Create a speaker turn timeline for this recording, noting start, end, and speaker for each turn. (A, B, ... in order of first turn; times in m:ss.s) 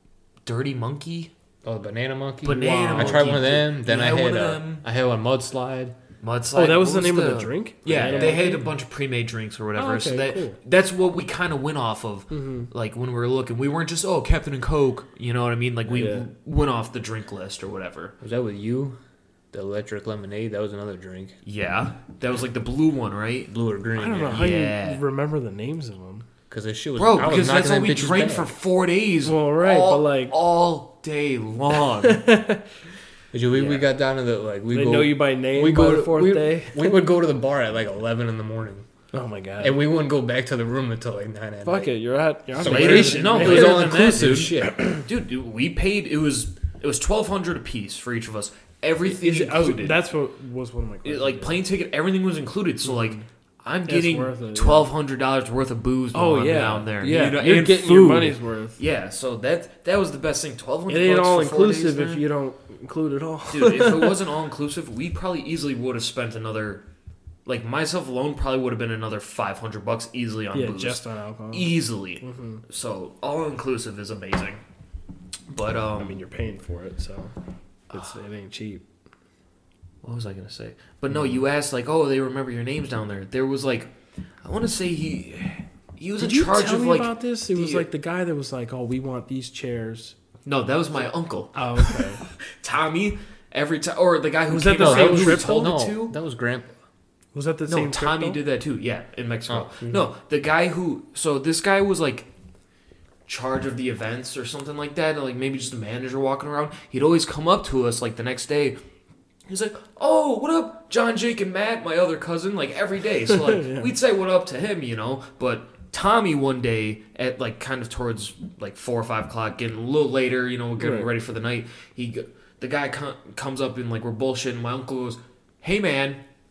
0:00.4-0:01.3 A
0:01.6-0:05.9 B
0:02.4-0:04.8 A
0:02.9-0:03.4 C
0:06.2-0:18.1 A
0:06.5-0:08.7 C
0:07.8-0:08.5 B
0:09.7-0:10.6 C
0:12.3-0:12.7 C
0:15.9-0:16.3 C
0:18.2-0:19.0 B
0:19.5-0:21.4 B
0:21.4-0:23.5 A
0:23.5-0:24.6 B
0:24.0-0:26.2 C
0:24.3-0:25.0 A
0:26.5-0:28.6 B
0:27.0-0:32.3 A
0:29.2-0:30.3 C
0:31.9-0:32.6 C
0:33.3-0:38.9 B
0:33.5-0:33.8 A
0:34.7-0:37.0 C
0:39.1-0:39.8 C
0:39.6-0:42.0 B
0:41.6-0:44.6 C
0:42.5-0:44.8 B
0:42.6-0:50.0 A
0:49.0-0:51.6 C
0:51.0-1:02.2 A
0:52.8-0:53.2 C
0:53.9-0:54.9 C
0:56.1-0:58.8 C
1:00.9-1:04.2 C
1:03.5-1:06.8 A
1:07.4-1:14.6 A
1:10.5-1:12.6 C
1:15.5-1:16.2 A
1:15.9-1:17.3 C
1:17.9-1:18.8 C
1:20.0-1:23.9 A
1:24.4-1:27.9 A
1:26.2-1:30.1 C
1:30.4-1:36.2 A
1:31.5-1:32.2 C
1:34.5-1:35.7 C
1:34.8-1:36.8 B
1:37.3-1:38.4 C
1:37.7-1:42.3 A
1:43.2-1:48.8 A
1:49.5-2:06.2 A
1:53.3-1:53.9 C
2:00.8-2:01.1 C